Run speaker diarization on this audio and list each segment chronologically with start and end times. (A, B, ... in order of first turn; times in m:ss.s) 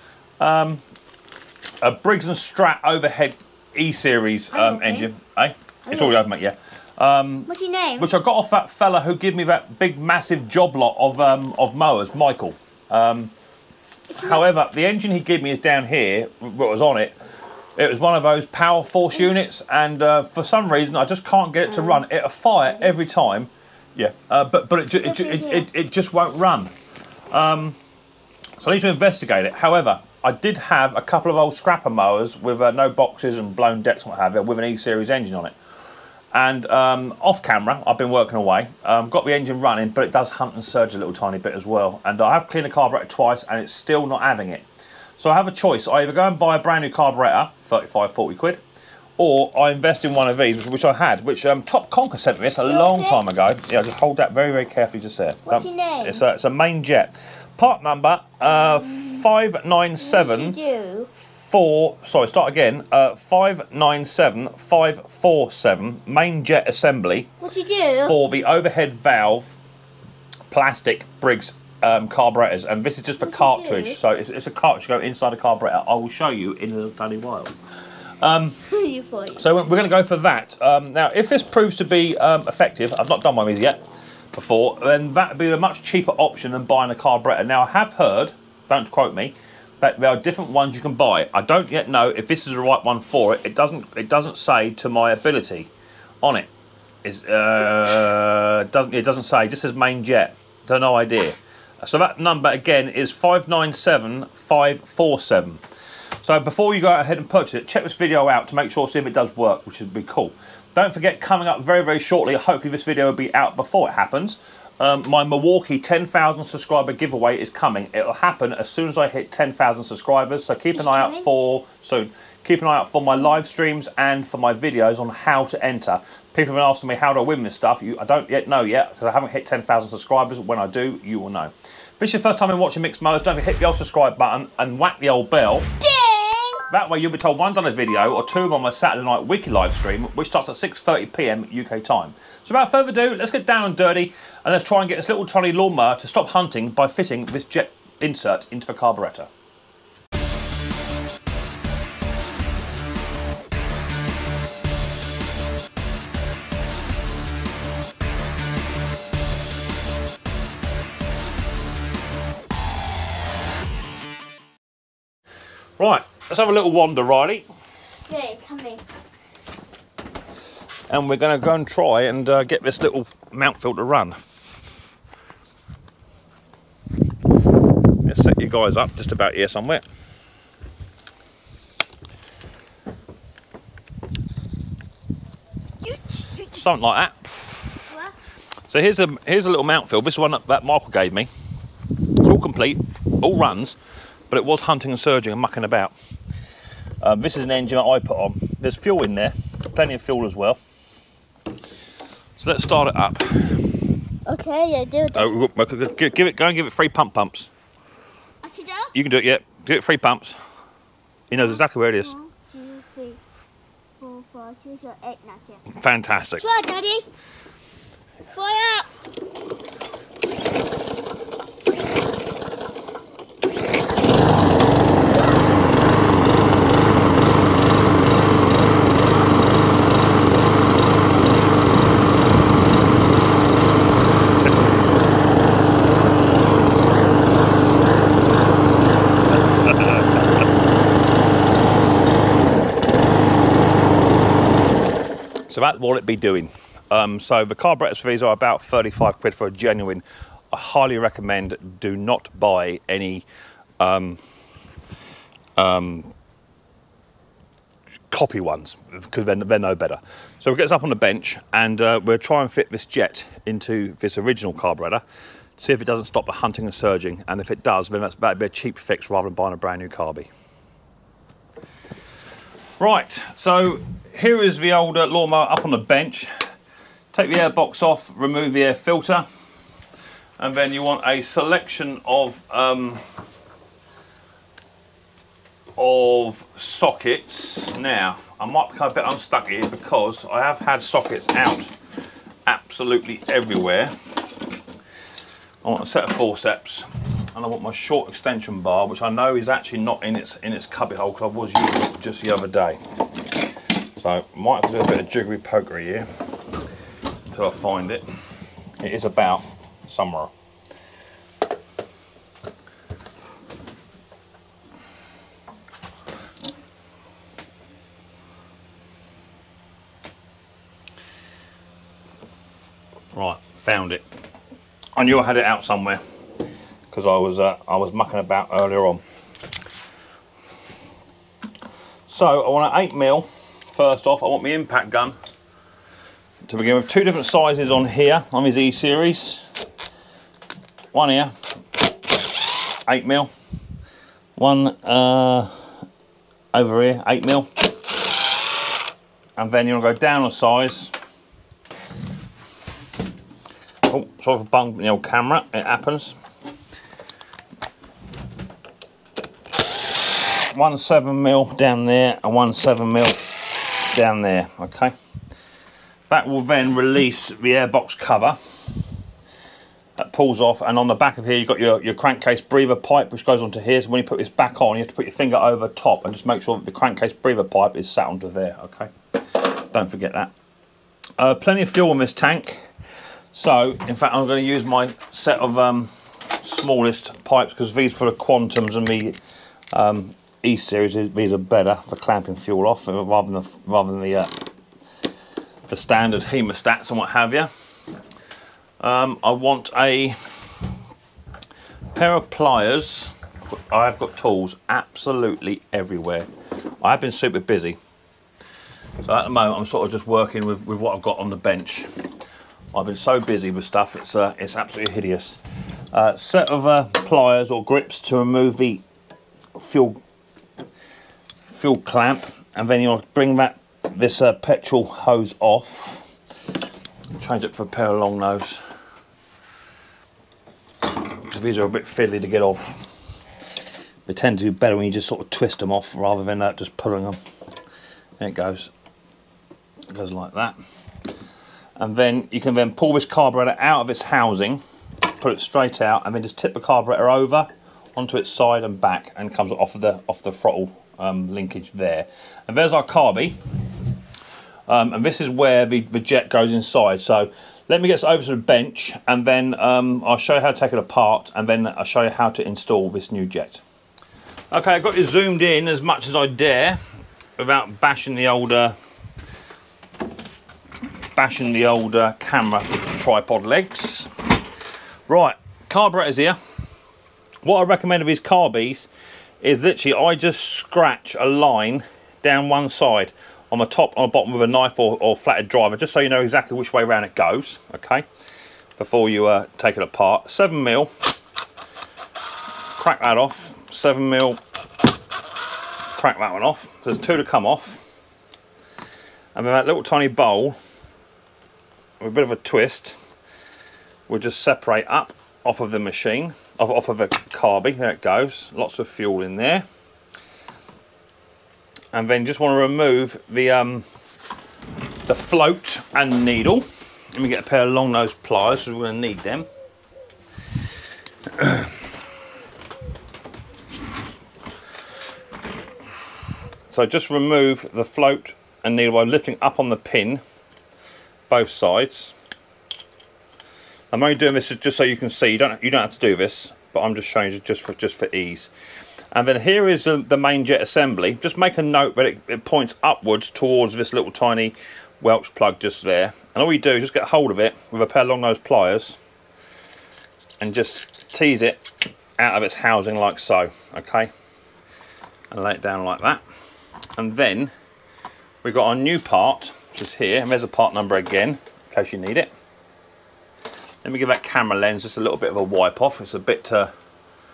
0:00.4-0:00.8 A
0:01.8-0:13.3 A
0:04.5-0:05.1 B
0:07.5-0:08.1 B
0:14.1-0:14.4 B
0:14.1-0:17.2 A
0:17.8-0:26.7 A
0:25.0-0:25.7 B
0:27.3-0:27.8 A
0:28.6-0:35.6 A
0:36.3-0:44.6 A
0:45.2-0:48.6 A
0:49.2-1:00.6 A
0:52.7-0:53.2 B
0:55.5-0:56.2 B
0:58.7-0:59.2 B
1:00.0-1:01.1 B
1:01.2-1:07.3 A
1:07.4-1:08.2 B
1:08.0-1:09.6 A
1:10.5-1:17.5 A
1:13.2-1:14.0 B
1:18.2-1:18.6 A
1:18.7-1:19.4 B
1:19.4-1:23.8 A
1:24.3-1:35.7 A
1:36.2-1:36.5 A
1:37.0-1:45.6 A
1:46.2-2:15.8 A
2:00.8-2:01.3 B
2:15.8-2:16.6 B
2:16.7-2:29.3 A
2:45.8-2:47.5 A
2:48.0-2:48.8 B
2:50.9-2:54.2 A
2:58.0-2:59.8 A
3:05.9-3:06.4 B
3:06.3-3:07.9 A
3:07.9-3:08.2 B
3:08.7-3:11.3 A
3:12.2-3:13.8 A
3:14.3-3:16.0 A
3:17.0-3:20.6 A
3:22.4-3:23.8 A
3:24.3-3:25.3 B
3:25.1-3:27.5 A
3:28.4-3:28.9 B
3:28.9-3:30.4 A
3:31.3-3:32.1 A
3:32.0-3:33.2 B
3:34.0-3:35.6 B
3:35.7-3:36.5 A
3:36.4-3:37.1 B
3:38.3-3:38.9 B
3:59.5-4:00.2 A
4:05.5-4:13.2 A
4:13.8-4:14.2 A
4:15.6-4:16.1 A
4:18.1-4:25.0 A
4:25.6-4:30.3 A
4:32.8-4:36.3 A
4:37.1-4:39.2 A
4:40.4-4:43.0 A
4:45.8-4:51.7 A
4:52.5-4:54.0 A
4:55.6-5:02.8 A
5:03.9-5:06.1 A
5:07.3-5:08.0 A
5:08.8-5:10.3 A
5:23.1-5:24.0 A
5:25.0-5:26.0 A
5:26.9-5:29.0 A
5:32.1-5:35.2 A
5:36.4-5:39.4 A
5:40.9-5:41.3 A
5:42.8-5:43.3 A
5:44.4-5:45.5 A
5:46.5-5:47.6 A
5:49.4-5:50.9 A
5:53.9-5:56.2 A
6:00.2-6:04.9 A
6:06.1-6:08.4 A
6:10.0-6:20.3 A
6:21.2-6:22.6 A
6:23.3-6:29.2 A
6:29.7-6:34.4 A
6:35.7-6:37.5 A
6:38.8-6:40.7 A
6:41.9-6:46.3 A
6:46.8-6:47.8 A
6:49.0-6:51.9 A
6:52.7-6:55.4 A
6:55.9-6:58.8 A
6:59.6-7:00.0 A
7:01.4-7:06.1 A
7:07.2-7:08.6 A
7:11.0-7:12.9 A
7:14.1-7:17.2 A
7:18.2-7:18.7 A
7:19.9-7:20.6 A
7:21.8-7:33.4 A
7:34.7-7:43.6 A
7:44.5-7:46.8 A
7:47.4-7:48.8 A
7:51.2-7:54.1 A
7:55.1-7:56.4 A
7:57.4-7:58.9 A
7:59.4-8:08.1 A
8:08.8-8:10.9 A
8:12.8-8:14.4 A
8:15.9-8:17.8 A
8:19.4-8:20.6 A
8:22.0-8:23.0 A
8:24.1-8:29.6 A
8:31.9-8:33.9 A
8:35.1-8:39.5 A
8:41.3-8:41.7 A
8:46.7-8:50.2 A
8:51.3-8:52.1 A
8:53.9-8:58.5 A
8:59.1-9:09.0 A
9:10.4-9:11.6 A
9:12.2-9:14.1 A
9:15.3-9:16.2 A
9:17.0-9:17.5 A
9:18.4-9:22.3 A
9:23.8-9:26.7 A